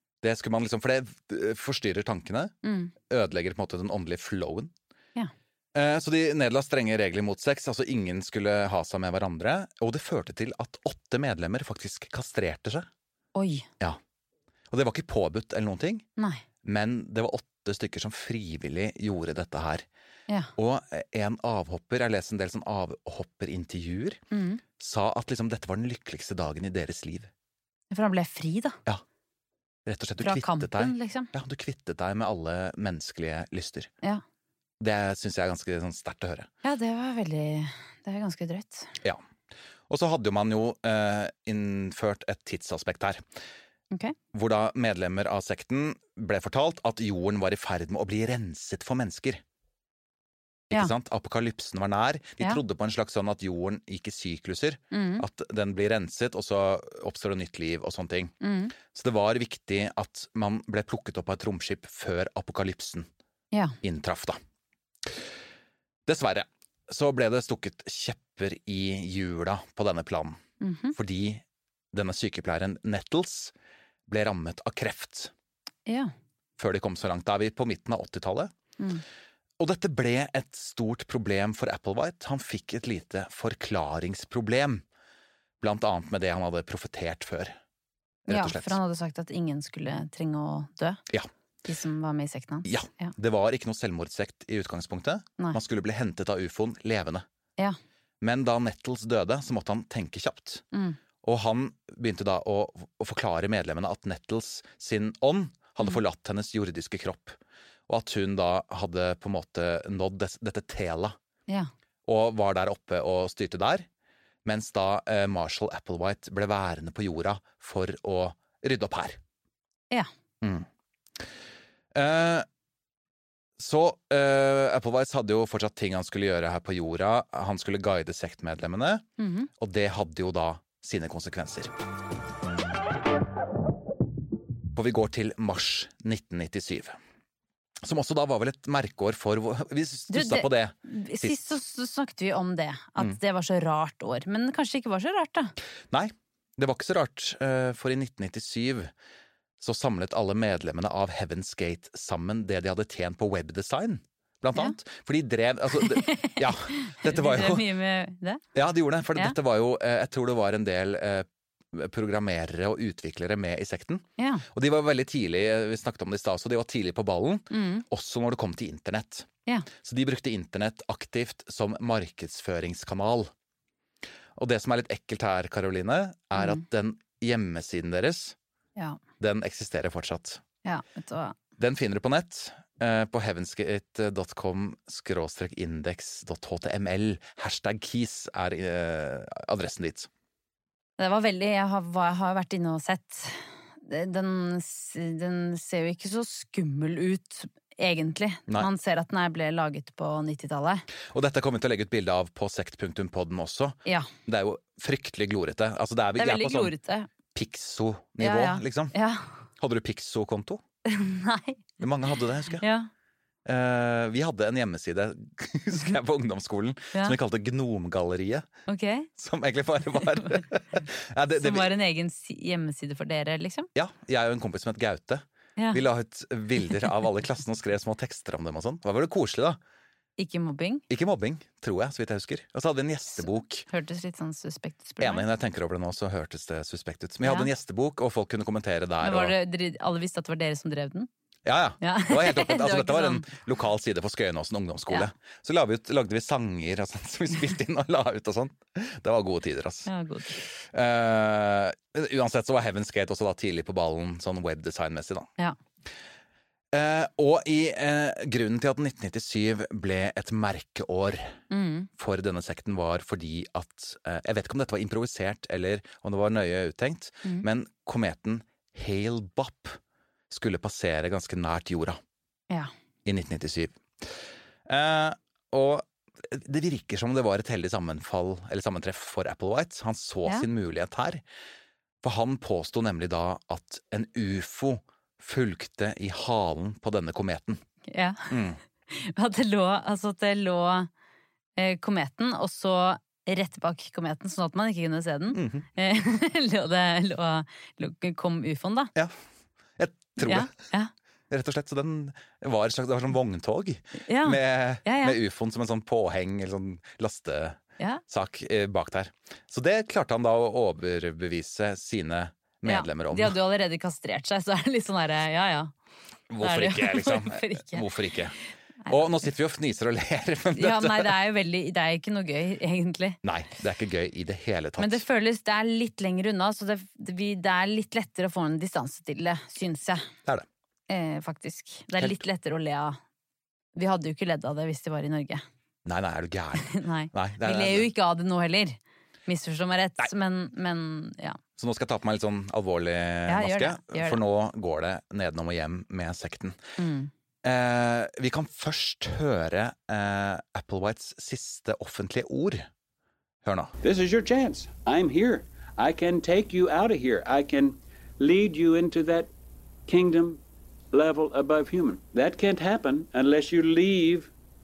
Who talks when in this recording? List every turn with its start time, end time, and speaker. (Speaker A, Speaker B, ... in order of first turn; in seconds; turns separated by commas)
Speaker A: 0.2-2.5, Speaker B: 2.6-2.9, Speaker A: 3.1-4.7, Speaker A: 5.7-12.9, Speaker B: 13.3-13.7, Speaker A: 14.7-16.1, Speaker B: 16.2-16.4, Speaker A: 16.6-19.9, Speaker A: 20.6-24.2, Speaker B: 24.3-24.6, Speaker A: 24.8-27.3, Speaker B: 27.9-28.8, Speaker A: 29.9-33.9, Speaker B: 30.2-31.3, Speaker A: 34.8-36.5, Speaker B: 36.6-38.9, Speaker A: 39.9-43.2, Speaker A: 44.3-49.4, Speaker A: 50.7-58.3, Speaker B: 54.9-55.2, Speaker B: 58.4-58.7, Speaker A: 58.9-63.1, Speaker A: 63.8-64.4, Speaker A: 66.0-70.4, Speaker B: 70.6-71.0, Speaker A: 70.9-73.5, Speaker A: 74.1-75.3, Speaker B: 75.9-76.1, Speaker A: 76.6-78.5, Speaker A: 79.6-84.8, Speaker A: 85.6-87.6, Speaker A: 88.2-88.8, Speaker B: 88.3-91.0, Speaker B: 91.6-93.1, Speaker A: 92.7-97.2, Speaker A: 98.2-100.6, Speaker B: 100.7-101.0, Speaker A: 101.2-111.2, Speaker A: 112.0-113.9, Speaker A: 114.4-119.2, Speaker A: 120.4-120.7, Speaker A: 121.9-122.5, Speaker A: 123.6-129.0, Speaker B: 129.2-129.5, Speaker A: 129.6-131.7, Speaker A: 134.7-137.0, Speaker A: 137.8-141.6, Speaker B: 140.1-145.5, Speaker A: 145.9-148.9, Speaker A: 149.6-157.6, Speaker B: 155.8-158.4, Speaker A: 158.5-169.3, Speaker B: 164.2-164.4, Speaker B: 167.5-167.8, Speaker A: 169.8-173.3, Speaker A: 174.3-178.3, Speaker B: 176.4-176.6, Speaker A: 179.2-180.4, Speaker B: 180.6-181.3, Speaker A: 181.6-190.1, Speaker B: 191.0-200.8, Speaker A: 201.1-206.7, Speaker B: 206.2-207.1, Speaker A: 207.3-208.9, Speaker B: 208.2-209.3, Speaker A: 209.6-210.6, Speaker B: 210.8-211.7, Speaker A: 211.8-212.6, Speaker B: 212.6-212.9, Speaker A: 213.4-218.5, Speaker B: 218.7-219.1, Speaker A: 219.2-221.7, Speaker B: 221.4-223.7, Speaker A: 223.7-229.6, Speaker B: 230.2-230.8, Speaker A: 230.9-233.6, Speaker B: 233.7-235.2, Speaker A: 235.0-239.3, Speaker B: 237.2-237.5, Speaker B: 239.0-241.1, Speaker A: 241.4-255.3, Speaker B: 241.8-243.2, Speaker B: 249.9-250.4, Speaker A: 256.7-261.3, Speaker B: 261.5-261.9, Speaker A: 262.0-269.8, Speaker A: 270.3-272.0, Speaker A: 273.0-281.2, Speaker A: 282.0-287.6, Speaker B: 287.9-288.3, Speaker A: 288.3-288.6, Speaker B: 288.9-290.9, Speaker B: 291.6-298.9, Speaker A: 295.3-295.6, Speaker A: 299.8-300.5, Speaker B: 300.2-300.9, Speaker A: 301.3-313.4, Speaker B: 304.1-305.2, Speaker B: 312.6-315.7, Speaker A: 316.3-318.3, Speaker B: 316.4-317.9, Speaker A: 318.9-321.1, Speaker B: 320.5-323.2, Speaker A: 323.2-325.0, Speaker B: 324.8-330.1, Speaker B: 330.9-333.0, Speaker B: 333.8-335.4, Speaker A: 335.8-337.9, Speaker B: 336.6-341.4, Speaker A: 341.6-346.6, Speaker B: 343.3-344.2, Speaker B: 346.8-347.1, Speaker A: 347.4-352.7, Speaker A: 353.4-353.8, Speaker C: 353.8-359.3, Speaker C: 359.9-360.4, Speaker C: 360.9-364.3